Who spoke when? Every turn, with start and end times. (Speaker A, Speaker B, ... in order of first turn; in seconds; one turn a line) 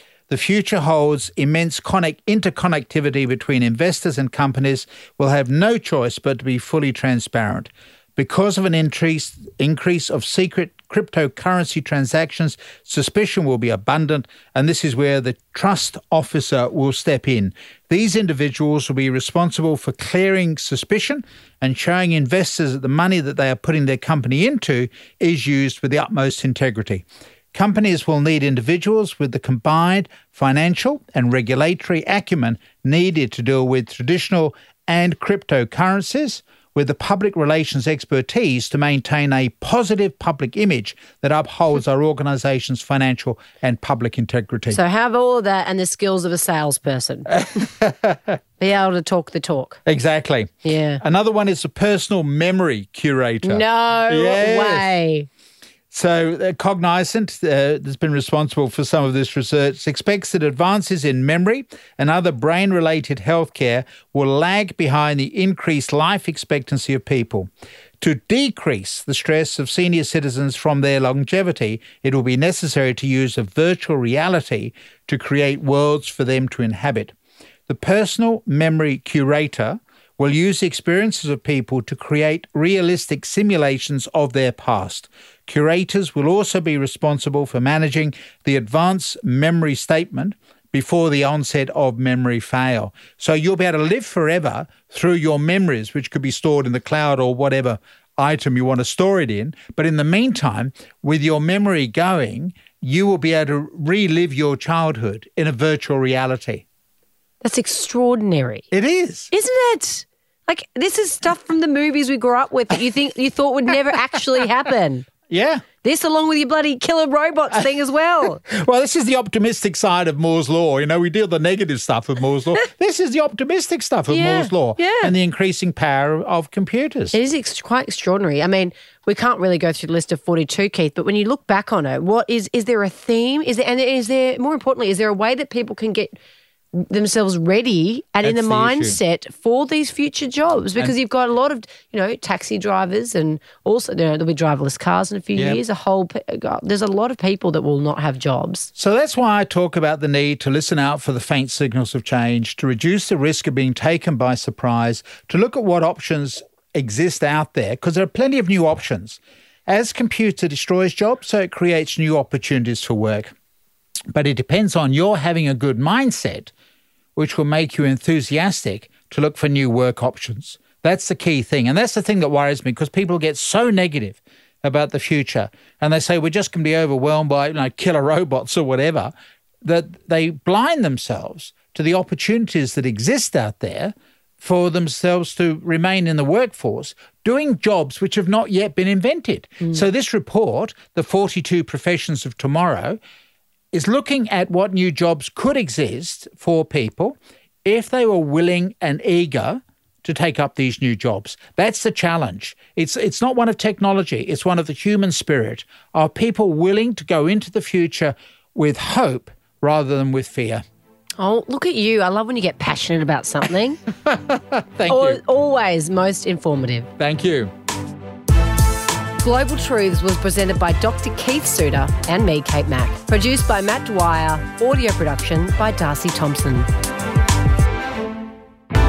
Speaker A: 0.3-44.8
Speaker B: 44.7-47.4
Speaker A: 47.4-48.4
Speaker B: 48.6-49.8
Speaker A: 49.9-55.0
Speaker B: 50.6-51.0
Speaker B: 53.4-55.3
Speaker A: 55.9-67.5
Speaker A: 68.0-77.1
Speaker A: 77.7-106.6
Speaker B: 107.4-108.6
Speaker A: 108.7-109.3
Speaker B: 109.3-115.1
Speaker A: 115.3-115.6
Speaker B: 115.8-118.4
Speaker A: 118.4-127.2
Speaker B: 124.1-125.1
Speaker B: 127.1-136.1
Speaker B: 136.7-148.7
Speaker A: 138.2-139.0
Speaker A: 148.7-163.3
Speaker A: 164.1-166.5
Speaker A: 167.2-179.1
Speaker A: 179.6-193.0
Speaker A: 193.7-210.6
Speaker B: 211.2-213.8
Speaker A: 214.0-215.2
Speaker B: 214.9-216.9
Speaker A: 217.0-217.5
Speaker B: 219.2-226.7